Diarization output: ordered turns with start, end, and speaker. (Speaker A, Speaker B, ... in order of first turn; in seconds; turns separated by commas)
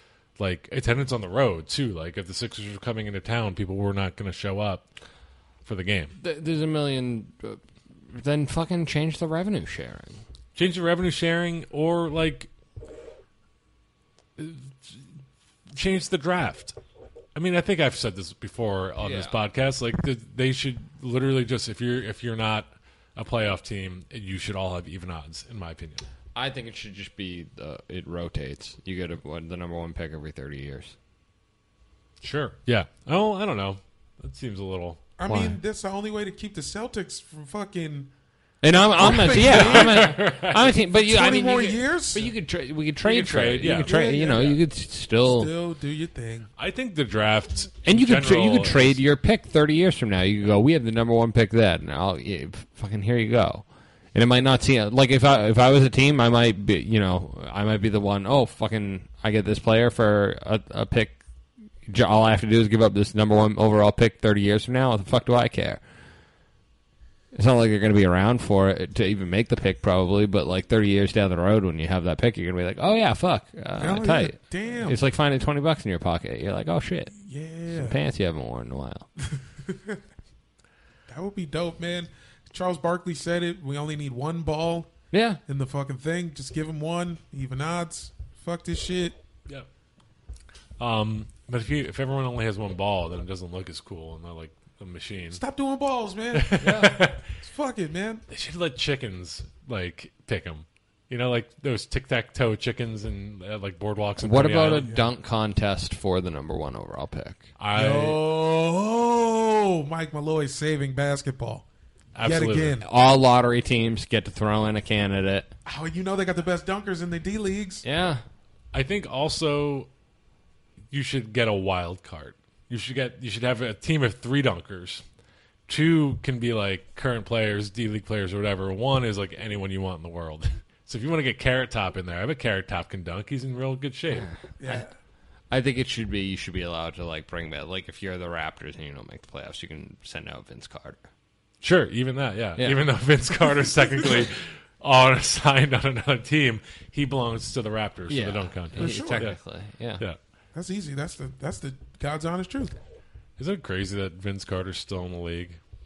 Speaker A: 0.4-4.9, Speaker A: 5.6-6.2, Speaker B: 6.2-10.2, Speaker A: 10.5-12.5, Speaker A: 14.4-15.1, Speaker A: 15.7-16.8, Speaker A: 17.3-26.0, Speaker B: 19.0-19.4, Speaker B: 26.3-30.9, Speaker A: 32.2-35.0, Speaker C: 35.2-38.1, Speaker B: 35.3-35.6, Speaker B: 38.6-45.5, Speaker C: 38.9-40.2, Speaker A: 39.0-40.7, Speaker C: 40.9-42.3, Speaker A: 43.0-44.4, Speaker C: 43.8-44.6, Speaker C: 45.2-46.5, Speaker A: 46.6-49.0, Speaker B: 47.8-61.2, Speaker B: 61.8-65.8, Speaker B: 67.3-77.1, Speaker C: 73.8-75.0, Speaker C: 77.1-78.0, Speaker B: 77.7-79.1, Speaker C: 79.3-80.0, Speaker C: 81.1-84.9, Speaker B: 85.1-85.4, Speaker C: 85.5-89.2, Speaker A: 90.8-95.4, Speaker C: 95.3-96.6, Speaker A: 96.3-97.3, Speaker B: 96.6-97.0, Speaker C: 97.4-98.2, Speaker A: 98.3-104.9, Speaker B: 104.2-107.5, Speaker C: 104.8-105.1, Speaker A: 107.6-108.2, Speaker C: 107.7-111.7, Speaker A: 112.1-112.8, Speaker C: 112.2-112.8, Speaker B: 112.8-115.5, Speaker C: 115.6-117.8, Speaker B: 117.8-118.2, Speaker A: 118.7-119.9, Speaker A: 120.9-125.0, Speaker A: 125.7-134.3, Speaker B: 134.1-134.9, Speaker C: 134.6-134.9, Speaker B: 135.5-141.1, Speaker A: 141.6-149.4, Speaker B: 148.1-150.0, Speaker C: 148.8-149.3, Speaker C: 150.5-152.8, Speaker A: 153.4-155.6